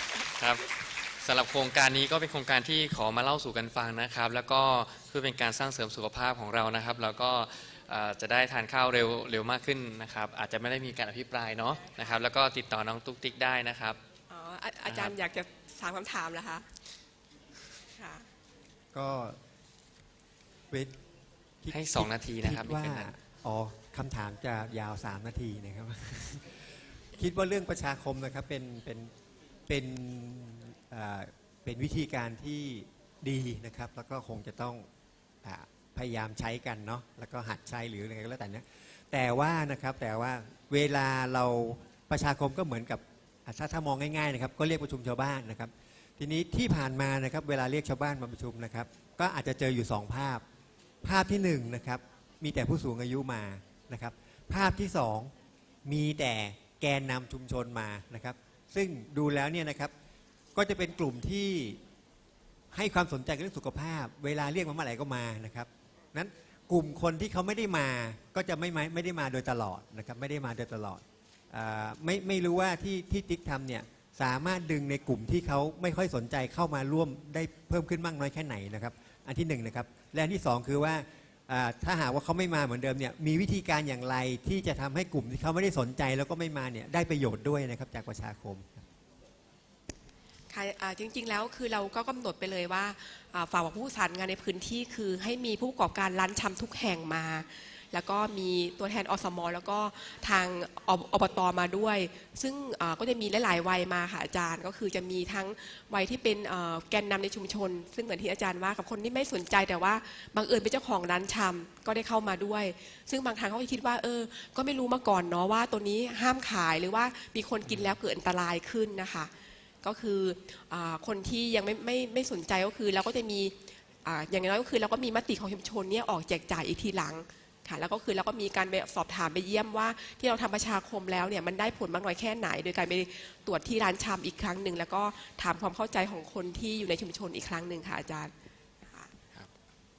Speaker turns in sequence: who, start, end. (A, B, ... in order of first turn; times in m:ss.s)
0:00.2-0:14.0 A
0:11.8-0:12.2 B
0:14.3-0:16.7 B
0:14.9-0:15.2 A
0:18.0-0:18.3 B
0:18.9-0:19.4 C
0:21.6-0:26.4 C
0:21.7-0:23.1 A
0:27.2-0:29.1 C
0:29.7-0:34.9 C
0:35.4-0:50.4 C
0:51.0-0:55.3 C
0:55.8-0:59.9 C
1:00.6-1:01.8 C
1:02.7-1:28.9 C
1:30.5-1:59.3 B
1:59.8-2:18.3 B